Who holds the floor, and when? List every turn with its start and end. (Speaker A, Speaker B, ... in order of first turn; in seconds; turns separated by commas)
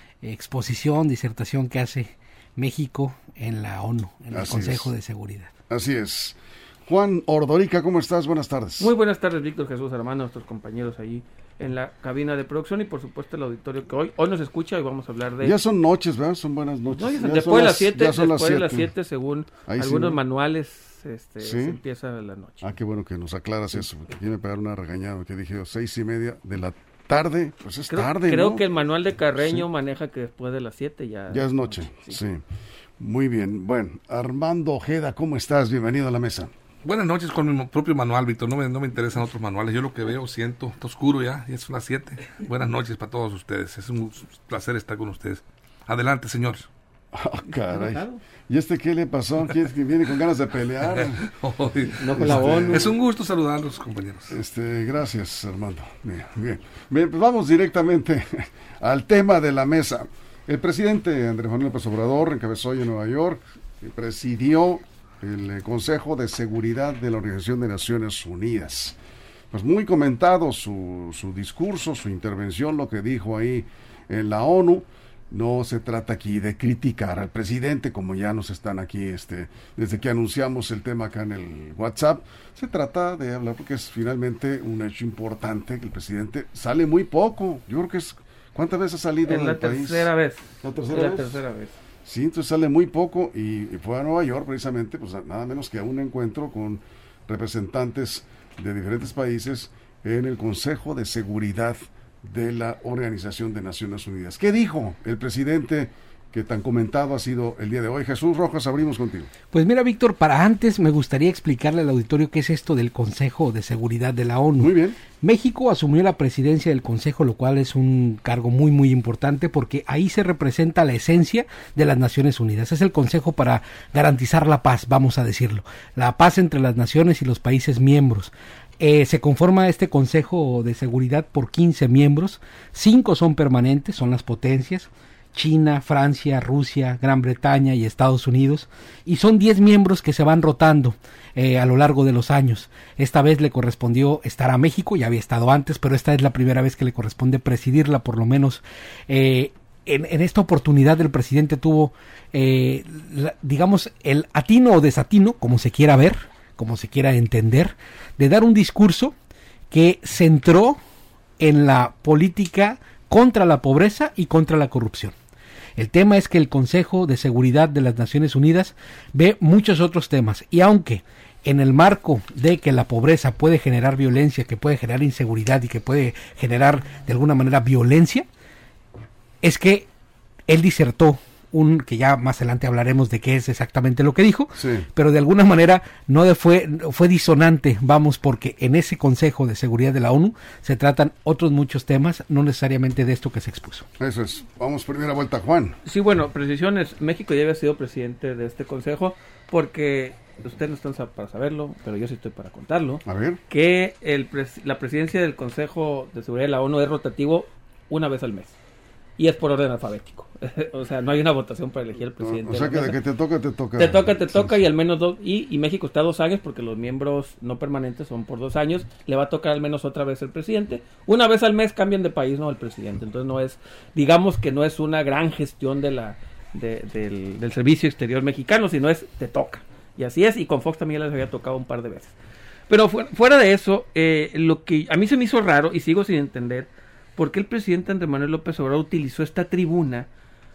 Speaker A: 0.2-5.5, Speaker B: 4.3-4.9, Speaker B: 5.7-8.9, Speaker C: 8.8-15.6, Speaker B: 15.4-18.9, Speaker C: 16.9-22.6, Speaker B: 19.7-20.2, Speaker B: 21.4-21.8, Speaker B: 22.6-28.6, Speaker C: 27.9-32.2, Speaker B: 29.4-29.6, Speaker B: 31.3-32.4, Speaker B: 33.0-36.5, Speaker D: 36.8-46.7, Speaker B: 47.1-51.2, Speaker C: 47.6-48.2, Speaker D: 51.2-54.4, Speaker C: 51.9-52.9, Speaker B: 52.1-52.9, Speaker B: 54.3-69.0, Speaker B: 69.5-90.1, Speaker C: 89.2-91.7, Speaker B: 90.6-91.4, Speaker B: 92.0-109.3, Speaker A: 109.5-159.1, Speaker B: 114.6-115.0, Speaker A: 159.7-160.8, Speaker A: 161.4-165.1, Speaker A: 165.8-178.2, Speaker A: 179.4-179.9, Speaker A: 180.5-193.9, Speaker B: 184.6-184.8, Speaker B: 194.0-195.8, Speaker C: 195.8-208.5, Speaker B: 203.1-203.4, Speaker C: 209.2-213.0, Speaker B: 212.2-214.6, Speaker C: 213.8-232.1, Speaker C: 232.7-240.1